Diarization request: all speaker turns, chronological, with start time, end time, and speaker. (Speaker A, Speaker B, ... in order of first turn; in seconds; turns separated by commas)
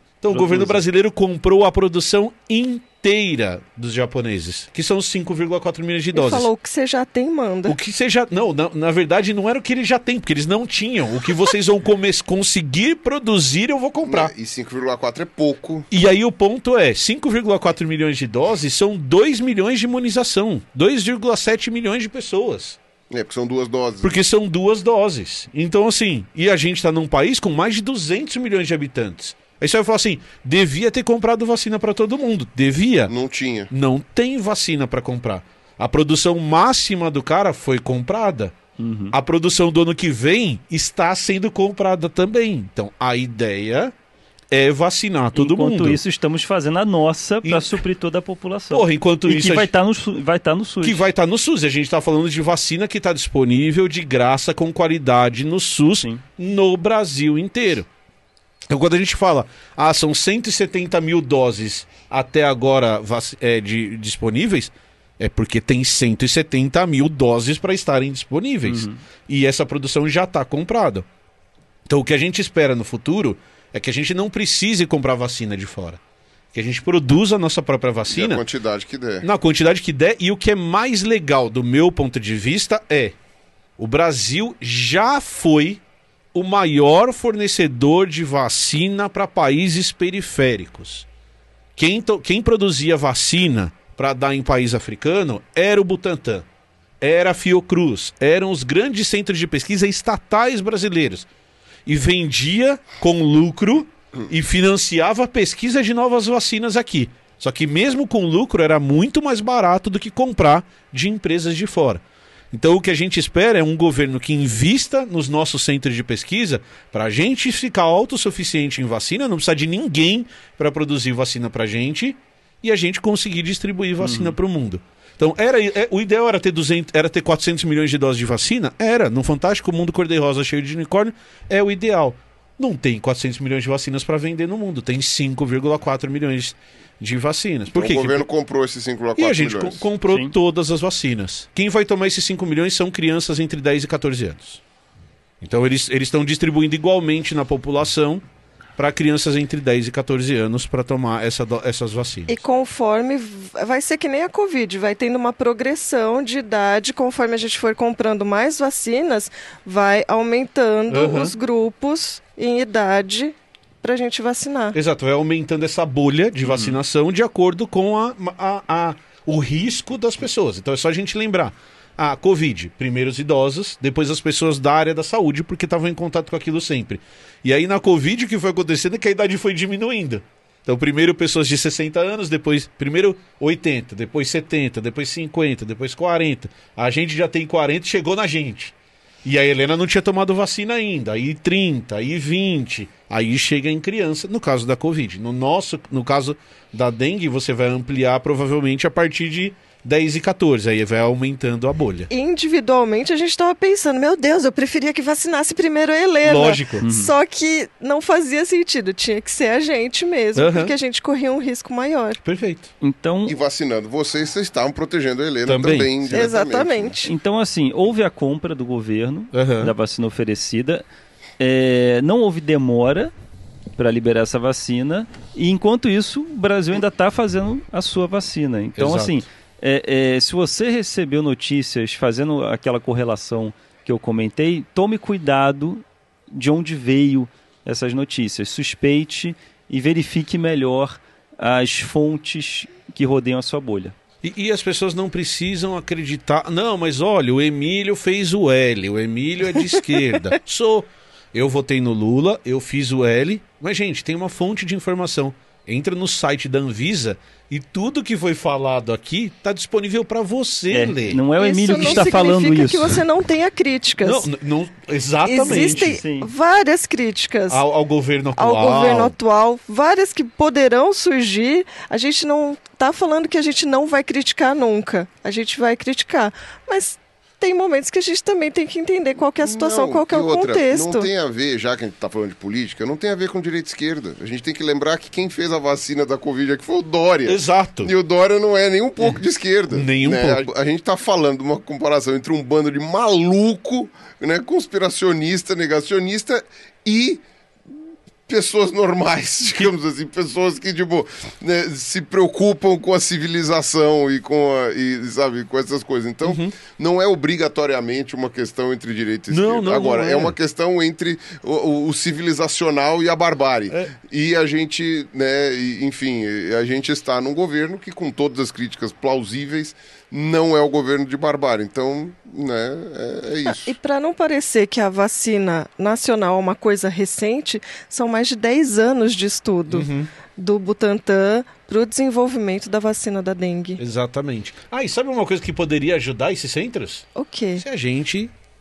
Speaker A: 0.2-6.5, Speaker B: 0.3-0.8, Speaker C: 6.1-7.8, Speaker A: 7.7-14.3, Speaker D: 14.0-15.9, Speaker A: 15.9-22.8, Speaker D: 23.1-24.2, Speaker A: 24.0-33.1, Speaker D: 33.1-33.7, Speaker A: 33.7-38.5, Speaker B: 38.8-39.1, Speaker A: 39.1-43.9, Speaker A: 44.5-46.0, Speaker B: 45.3-51.0, Speaker A: 47.4-47.8, Speaker A: 48.7-49.7, Speaker A: 50.8-57.9, Speaker A: 58.7-71.0, Speaker B: 68.6-69.0, Speaker A: 71.9-76.0, Speaker A: 76.5-78.4, Speaker D: 78.1-79.3, Speaker A: 79.2-83.1, Speaker A: 83.8-85.8, Speaker A: 86.3-91.0, Speaker A: 91.8-96.4, Speaker A: 97.0-101.2, Speaker A: 101.8-112.0, Speaker A: 112.5-138.3, Speaker B: 124.0-124.3, Speaker D: 137.7-139.8, Speaker A: 139.2-144.6, Speaker A: 145.4-148.2, Speaker A: 148.8-152.4, Speaker C: 152.3-164.8, Speaker A: 160.9-161.3, Speaker A: 164.7-188.7, Speaker B: 166.4-166.8, Speaker A: 189.2-202.1, Speaker C: 202.1-212.2, Speaker A: 206.2-206.8, Speaker B: 206.8-207.1, Speaker A: 210.3-210.7, Speaker A: 212.2-212.7, Speaker B: 212.8-213.3, Speaker D: 213.2-217.1, Speaker A: 215.4-216.3, Speaker C: 216.1-217.1, Speaker B: 217.0-220.8, Speaker A: 219.3-219.7, Speaker B: 221.4-223.1, Speaker B: 223.7-243.9, Speaker A: 228.8-229.2, Speaker A: 244.2-262.1, Speaker B: 260.7-263.0, Speaker C: 261.4-264.3, Speaker A: 264.0-266.0, Speaker C: 265.2-267.6, Speaker B: 265.4-266.3, Speaker A: 267.5-269.1, Speaker C: 268.4-281.1, Speaker D: 279.4-297.2, Speaker A: 287.2-287.9, Speaker A: 289.7-290.5, Speaker D: 298.3-323.8, Speaker A: 306.2-306.5, Speaker A: 309.3-310.4, Speaker C: 323.4-333.8, Speaker A: 329.7-330.1, Speaker A: 333.8-337.1, Speaker C: 337.1-337.6, Speaker A: 337.6-338.3